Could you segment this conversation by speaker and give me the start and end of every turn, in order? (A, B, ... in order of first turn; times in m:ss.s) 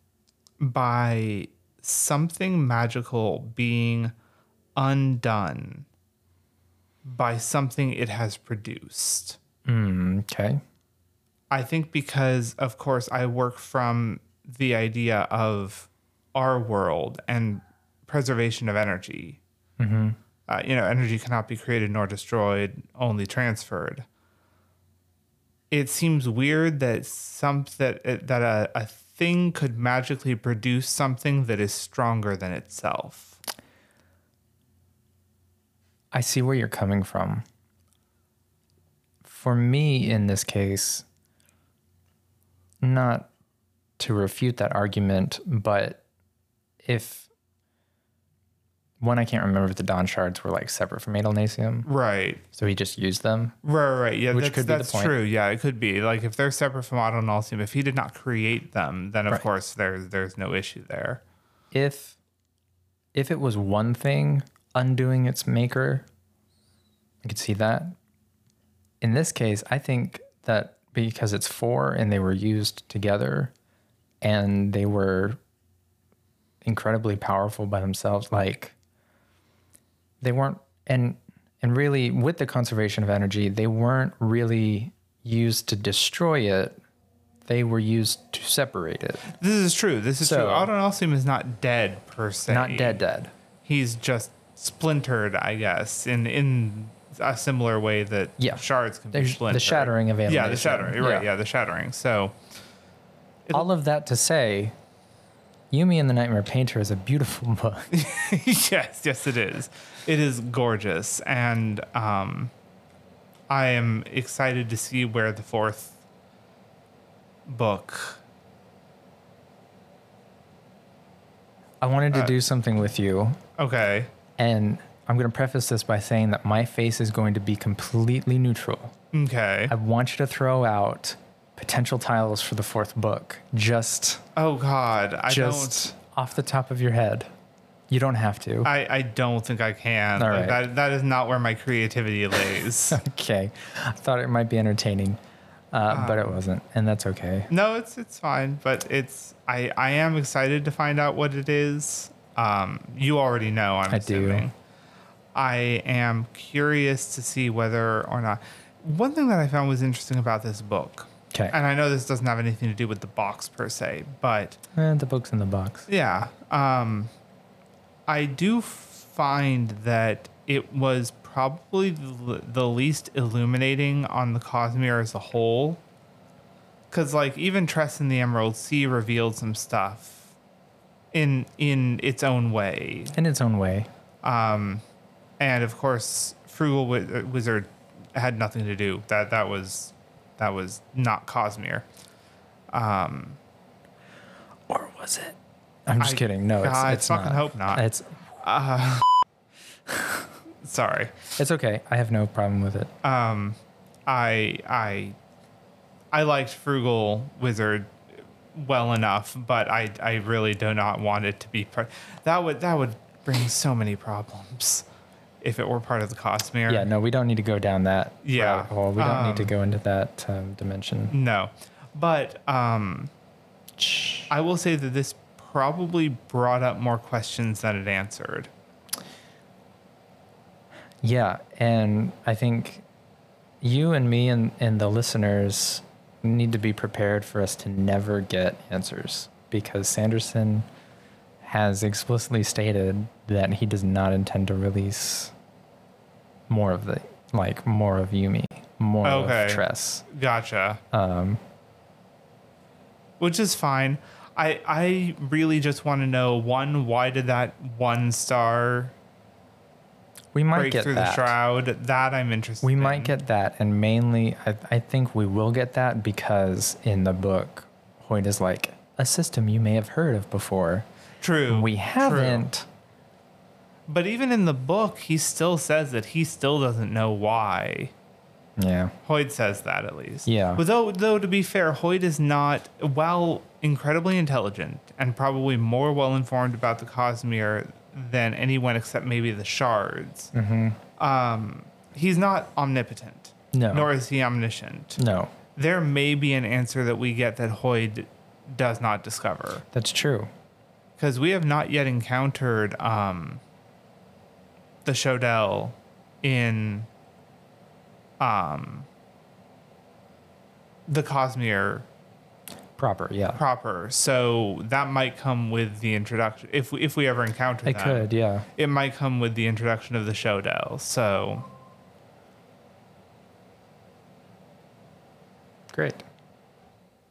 0:00.6-0:04.1 A
0:04.8-0:05.9 A
0:07.0-0:09.4 A
0:09.6-0:10.6 B
0:11.5-0:19.4 A
0:19.8-0:20.2 B
0:20.5-0:24.0 A
0:25.7-0:33.4 A
0:36.1-0:37.4 B
0:39.2-0:41.0 B
0:42.8-0:43.3 B
0:44.0-0:46.0 B
0:46.8-0:47.3 B
0:49.0-0:51.9 B
0:51.8-0:52.4 A
0:52.5-0:53.5 B
0:53.6-1:01.2 A
0:54.3-0:55.2 B
1:01.7-1:02.2 B
1:03.1-1:06.0 B
1:07.2-1:08.0 B
1:09.0-1:13.5 B
1:14.2-1:15.4 B
1:16.6-1:18.8 B
1:20.2-1:26.8 B
1:27.4-1:29.2 B
1:29.2-1:33.0 A
1:30.2-1:30.7 B
1:32.5-1:33.3 B
1:33.6-1:42.3 A
1:38.4-1:41.3 B
1:43.5-1:44.8 B
1:45.7-1:47.9 B
1:47.9-1:52.5 A
1:53.5-1:56.0 A
1:57.5-1:58.2 A
2:01.8-2:03.4 B
2:03.6-2:04.1 A
2:04.4-2:08.9 B
2:09.1-2:09.7 A
2:09.7-2:14.2 B
2:14.4-2:15.9 A
2:15.3-2:17.3 B
2:17.9-2:18.7 B
2:18.6-2:23.0 A
2:20.2-2:20.6 B
2:22.9-2:25.2 B
2:25.7-2:27.5 B
2:25.9-2:26.4 A
2:27.5-2:34.5 A
2:33.9-2:34.5 B
2:35.3-2:44.6 A
2:44.8-2:45.9 B
2:45.9-2:47.1 A
2:48.1-2:55.8 A
2:56.9-3:00.3 A
3:01.1-3:03.2 A
3:03.1-3:03.9 B
3:04.2-3:04.8 A
3:05.4-3:11.8 A
3:12.7-3:13.4 A
3:14.7-3:18.2 B
3:16.0-3:17.8 A
3:18.4-3:19.1 A
3:20.6-3:21.2 A
3:21.4-3:22.9 B
3:23.0-3:25.2 A
3:26.1-3:34.8 A
3:35.4-3:36.9 A
3:36.7-3:41.1 B
3:38.2-3:39.5 A
3:41.1-3:43.1 A
3:43.8-3:44.3 B
3:44.3-3:48.5 A
3:51.0-3:52.8 B
3:53.6-4:00.7 B
4:01.4-4:05.3 B
4:06.5-4:10.0 B
4:09.0-4:10.8 A
4:10.9-4:11.4 B
4:13.2-4:18.9 A
4:20.3-4:21.4 B
4:20.5-4:23.2 A
4:22.6-4:30.8 B
4:31.2-4:32.5 A
4:31.5-4:32.6 B
4:33.9-4:37.9 A
4:38.6-4:38.9 B
4:39.0-4:50.3 A
4:40.2-4:40.6 B
4:50.3-4:50.8 B
4:51.0-4:55.0 A
4:53.5-4:53.9 B
4:55.0-4:55.3 B
4:55.6-4:59.6 A
4:59.7-5:00.3 B
5:01.0-5:03.4 A
5:04.8-5:06.9 A
5:08.2-5:08.9 A
5:10.9-5:11.8 A
5:12.8-5:13.4 B
5:13.3-5:21.5 A
5:17.6-5:18.5 B
5:25.7-5:26.0 B